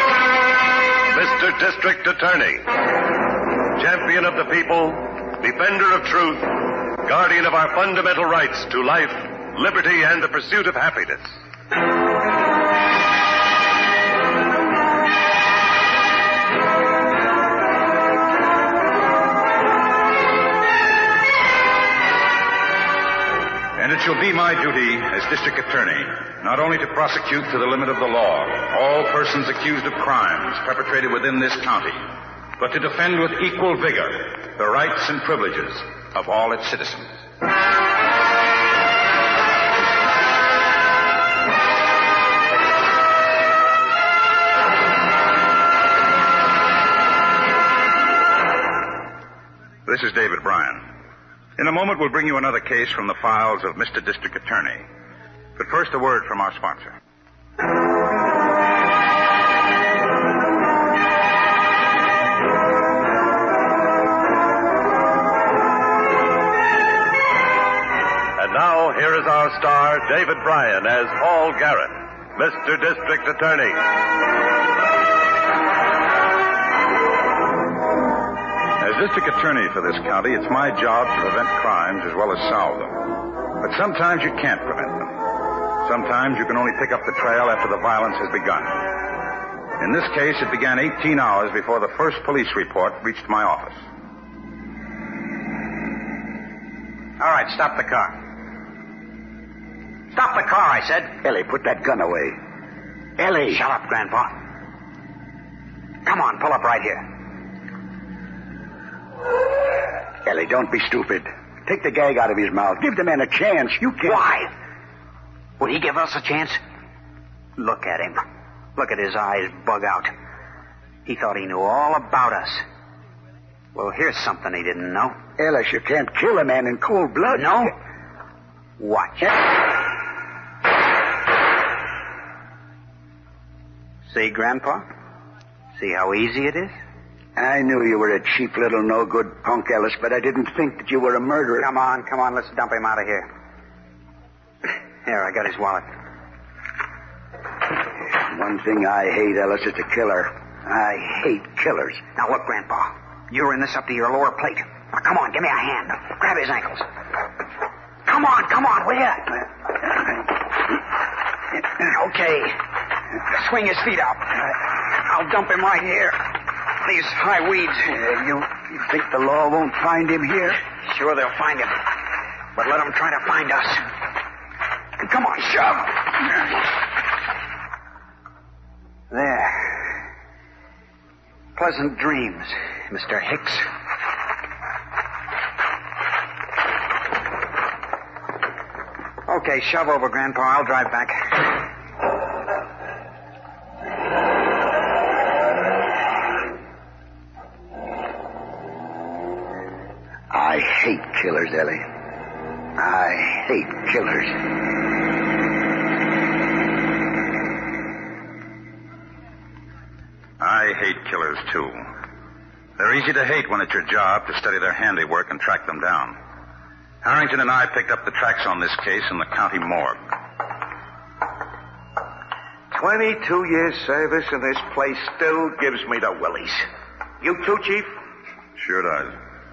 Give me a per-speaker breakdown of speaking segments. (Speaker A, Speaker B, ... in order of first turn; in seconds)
Speaker A: 1.1-2.9, 3.6-11.4, 68.3-73.8
Speaker B: 23.8-37.2, 49.9-50.9, 51.6-54.9, 55.6-56.9, 78.8-83.1, 83.6-85.2, 85.8-89.0, 89.8-93.8, 210.4-211.9, 212.8-216.2, 217.0-220.0, 228.6-229.1
Speaker C: 97.2-98.2, 100.1-101.2, 103.5-104.3, 106.0-107.1, 114.0-114.5, 115.6-116.6, 117.6-118.2, 118.8-120.1, 121.0-122.6, 123.7-125.2, 127.3-127.7, 128.8-129.4, 134.1-134.8, 135.8-136.7, 141.6-143.3, 144.7-145.9, 152.1-156.9, 158.1-159.5, 161.5-162.6, 163.1-168.1, 170.8-171.9, 172.5-173.9, 175.0-176.5, 179.1-179.9, 181.6-183.7, 189.2-191.5
Speaker D: 101.2-102.4, 103.2-103.6, 110.2-114.3, 125.4-127.7, 137.3-141.7, 148.1-152.0, 168.0-170.6, 200.3-201.8, 202.8-204.3
Speaker E: 222.7-226.7, 227.2-227.9